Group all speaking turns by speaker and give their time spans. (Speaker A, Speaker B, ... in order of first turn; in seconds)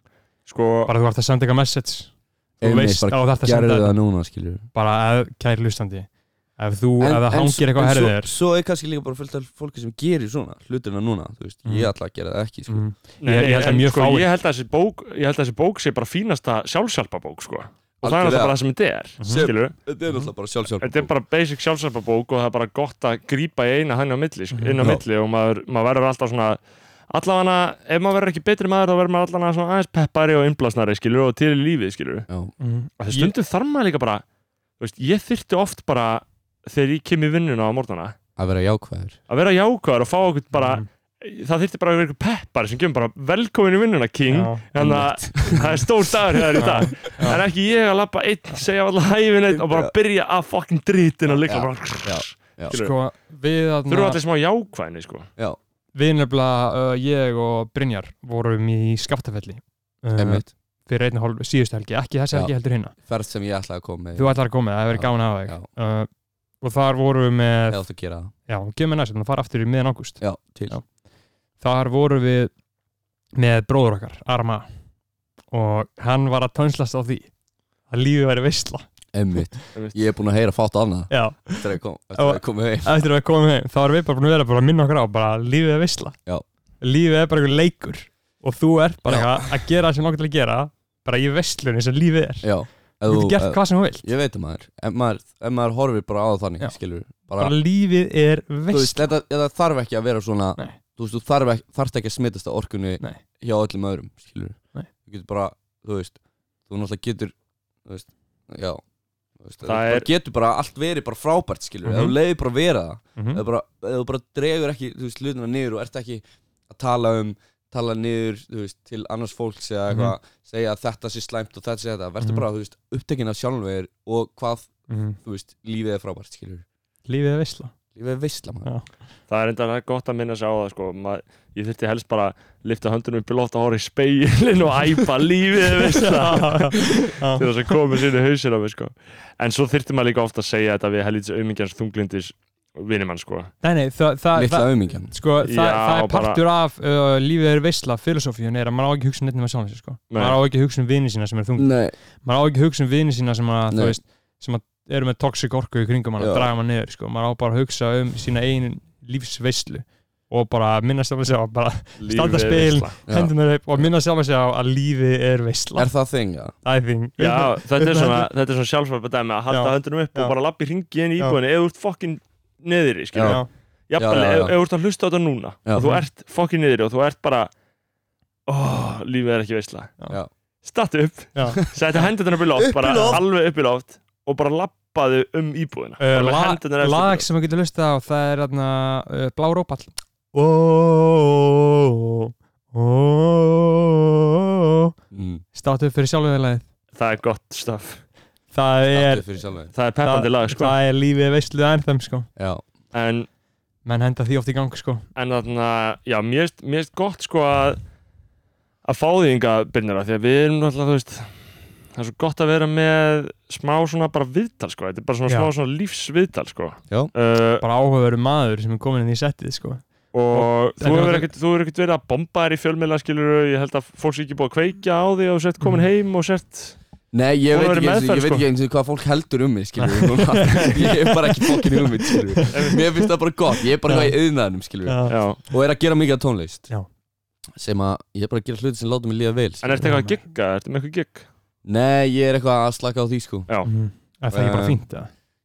Speaker A: 0.5-0.9, 13.2-19.7, 20.8-32.3, 33.0-34.2, 34.8-38.1, 39.3-53.0, 53.9-55.3, 109.6-110.1, 129.3-143.5, 145.4-146.4, 150.1-150.4, 162.0-162.9, 167.2-177.5, 178.5-179.9, 180.6-187.2, 196.9-198.0, 199.7-200.8, 202.9-203.3, 205.2-207.8, 208.8-217.6, 220.1-226.8, 227.5-228.4, 232.5-232.8, 235.1-235.4, 239.6-241.3
Speaker B: 0.8-4.0, 4.7-8.3, 11.6-11.9, 12.7-14.3, 19.2-19.5, 24.5-24.9, 32.6-33.3, 40.5-40.8, 44.3-44.6, 46.6-47.4, 52.7-54.2, 55.9-62.9, 64.2-66.1, 66.6-67.8, 68.5-70.8, 71.6-72.5, 73.3-74.7, 75.5-77.3, 77.9-78.8, 81.1-86.2, 86.8-92.5, 93.0-94.1, 97.4-99.1, 111.8-112.1, 119.9-120.1, 122.2-122.5, 124.9-125.2, 127.1-127.7, 135.8-137.5, 143.6-165.9, 166.6-168.3, 169.5-170.3, 175.8-176.1, 181.3-181.6, 182.9-183.2, 186.0-194.9, 195.5-196.6, 198.5-199.3, 200.0-202.3, 203.8-205.1, 217.6-221.3, 229.8-232.8, 233.8-234.1, 234.8-235.2, 239.8-240.2, 243.7-245.1
Speaker C: 2.6-4.6, 7.0-12.8, 18.0-18.6, 19.2-21.1, 38.4-39.1, 44.8-46.7, 49.5-49.9, 51.4-52.7, 60.1-60.5, 62.3-65.7, 67.7-68.3, 70.2-70.8, 79.1-82.9, 89.0-89.5, 92.4-97.5, 98.7-108.8, 109.4-126.6, 127.9-128.7, 144.3-145.1, 151.6-151.9, 153.7-154.0, 156.2-156.5, 163.1-163.8, 165.8-166.5, 173.1-173.4, 174.0-174.6, 182.6-183.2, 195.1-195.4, 198.9-199.7, 202.4-202.6, 227.1-236.7, 237.6-239.8, 241.6-243.5, 244.3-244.8